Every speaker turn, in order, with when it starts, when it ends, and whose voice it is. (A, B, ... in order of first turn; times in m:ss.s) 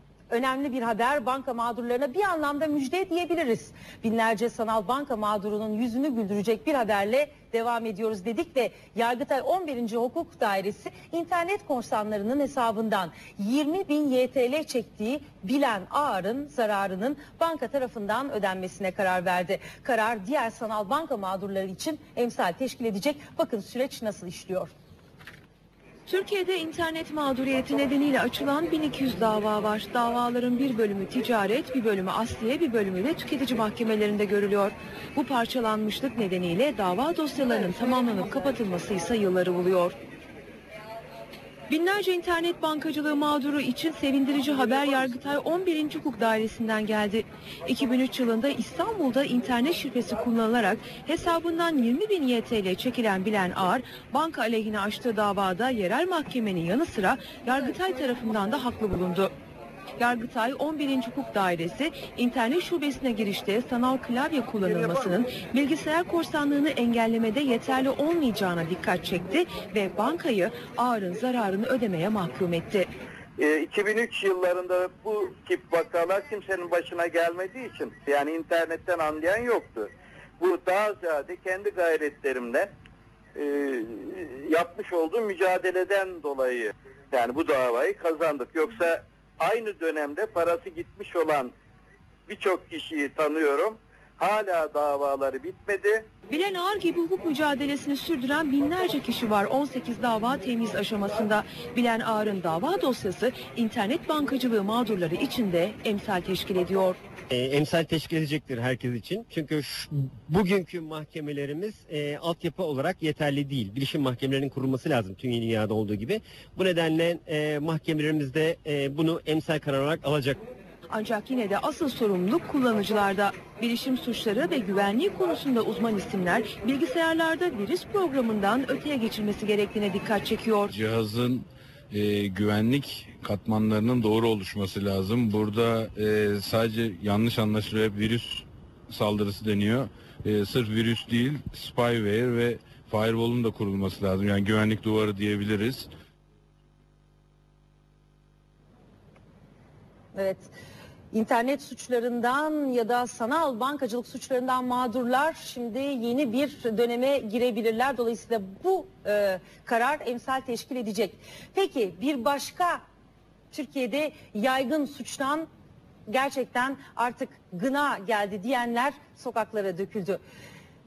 0:00.3-0:24.7 A
0:26.1-0:40.0 B
0:41.7-0:59.3 B
1:00.0-1:12.9 B
1:13.4-1:22.7 C
1:23.4-1:31.5 C
1:32.3-1:36.0 C
1:36.3-1:47.0 B
1:47.3-2:00.4 D
2:00.9-2:10.7 B
2:10.7-2:25.9 E
2:30.2-2:30.5 A
2:31.1-2:42.8 A
2:43.5-2:45.5 A
2:46.1-2:50.2 A